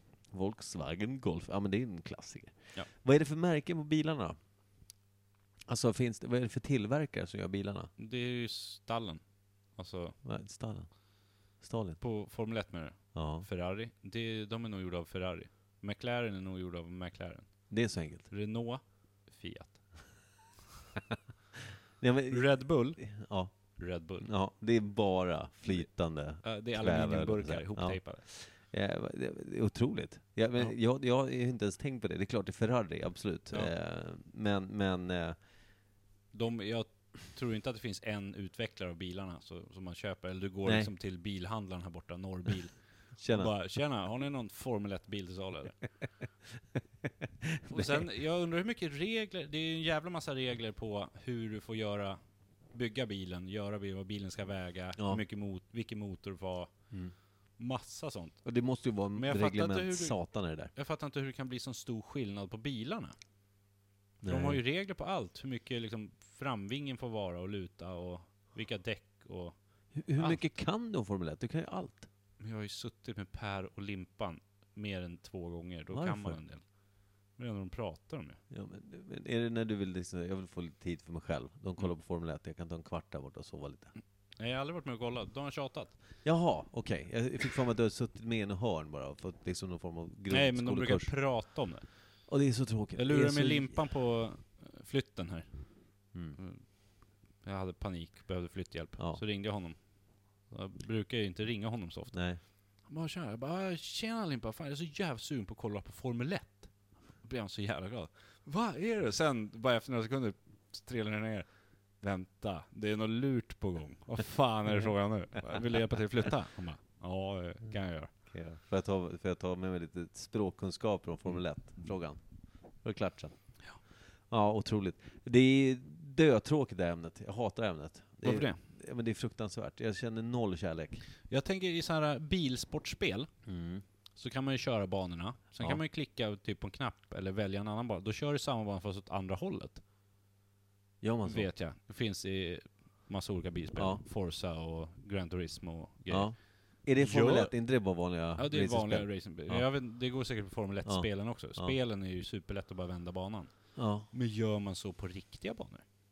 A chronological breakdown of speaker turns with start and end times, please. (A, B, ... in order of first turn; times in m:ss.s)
0:00.3-0:04.4 A
0:05.7-0:07.9 A
0:08.0-0:10.2 B
0:10.2-0:10.9 A
0:11.6-0:12.0 A
0:12.0-0:17.7 B
0:13.1-0:13.5 A
0:17.7-0:18.3 A
0:18.3-0:19.8 B
0:22.0-0:23.5 A
0:22.3-0:23.0 B
0:23.8-0:24.3 B
0:24.2-0:35.4 A
0:26.4-0:28.2 B
0:36.3-0:42.8 B
0:40.6-0:40.9 A
0:43.2-0:43.5 A
0:43.3-0:45.8 B
0:47.4-0:48.1 A
0:47.7-0:52.2 B
0:52.7-0:56.7 B
0:57.6-0:58.4 B
0:58.4-1:00.7 A
0:59.2-1:00.2 B
1:00.8-1:03.2 B
1:04.2-1:04.6 A
1:04.2-1:09.6 B
1:10.0-1:12.1 A
1:10.2-1:10.4 B
1:12.4-1:16.6 B
1:15.9-1:16.4 A
1:17.4-1:18.4 B
1:18.5-1:23.9 A
1:24.4-1:26.0 B
1:26.2-1:31.2 A
1:30.3-1:31.9 B
1:32.3-1:33.9 A
1:33.0-1:35.6 B
1:36.4-1:36.6 B
1:37.4-1:39.8 B
1:40.5-1:42.2 B
1:42.1-1:42.4 A
1:42.8-1:51.5 B
1:52.0-1:58.1 B
1:58.3-2:02.2 A
2:02.8-2:03.4 A
2:04.3-2:11.0 A
2:08.2-2:08.6 B
2:11.3-2:13.3 B
2:13.5-2:13.8 A
2:14.2-2:19.8 B
2:21.0-2:21.5 A
2:21.3-2:26.4 B
2:23.8-2:24.0 A
2:26.1-2:29.7 A
2:27.0-2:27.5 B
2:28.4-2:33.5 B
2:30.8-2:31.8 A
2:33.8-2:34.1 A
2:34.1-2:35.8 B